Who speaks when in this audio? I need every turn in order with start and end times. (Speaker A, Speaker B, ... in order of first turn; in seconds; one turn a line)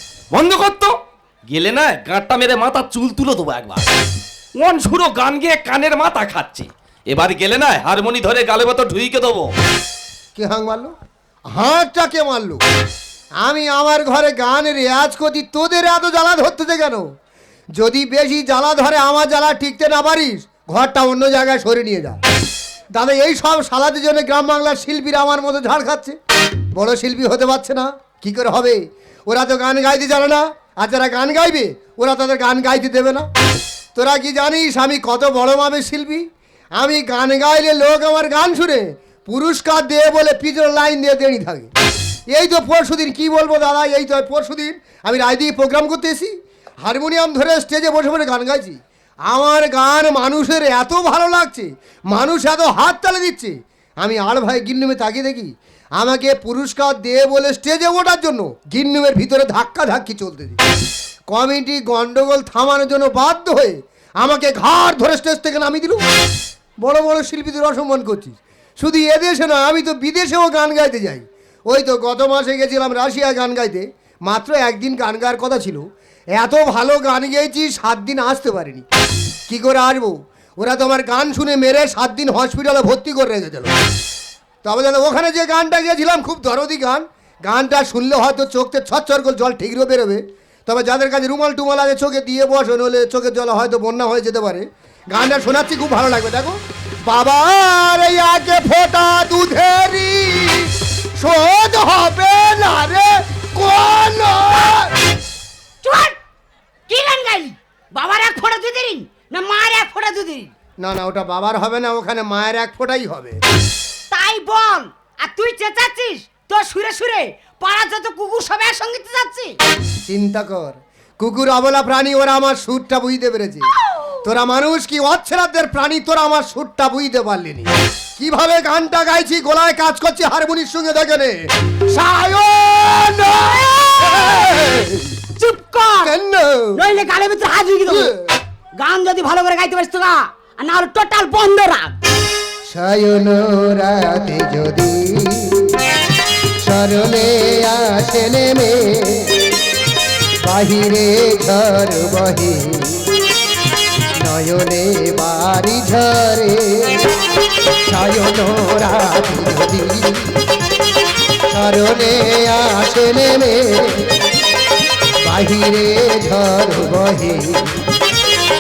Speaker A: 0.3-0.9
Speaker A: 1.5-3.9
Speaker A: 4.6-9.5
Speaker B: 10.4-10.9
Speaker B: 11.5-12.6
Speaker B: 13.4-17.0
Speaker B: 17.8-22.2
Speaker B: 23.0-26.2
Speaker B: 26.7-33.3
Speaker B: 34.0-36.3
Speaker B: 36.8-41.7
Speaker B: 42.3-46.3
Speaker B: 46.8-60.6
Speaker B: 61.3-66.0
Speaker B: 66.8-75.8
Speaker B: 76.4-78.8
Speaker B: 79.5-83.7
Speaker B: 84.6-104.9
Speaker C: 105.8-106.2
Speaker C: 106.9-110.5
Speaker B: 110.8-113.4
Speaker C: 114.1-119.5
Speaker B: 120.1-123.7
Speaker B: 124.2-131.4
Speaker B: 131.9-135.1
Speaker C: 135.4-136.1
Speaker B: 136.0-136.8
Speaker C: 136.8-138.1
Speaker B: 137.8-138.2
Speaker C: 138.8-141.9
Speaker B: 142.7-145.7
Speaker B: 146.6-149.3
Speaker B: 150.4-153.0
Speaker B: 154.2-157.1
Speaker B: 157.9-160.4
Speaker B: 161.5-164.1
Speaker B: 165.2-167.8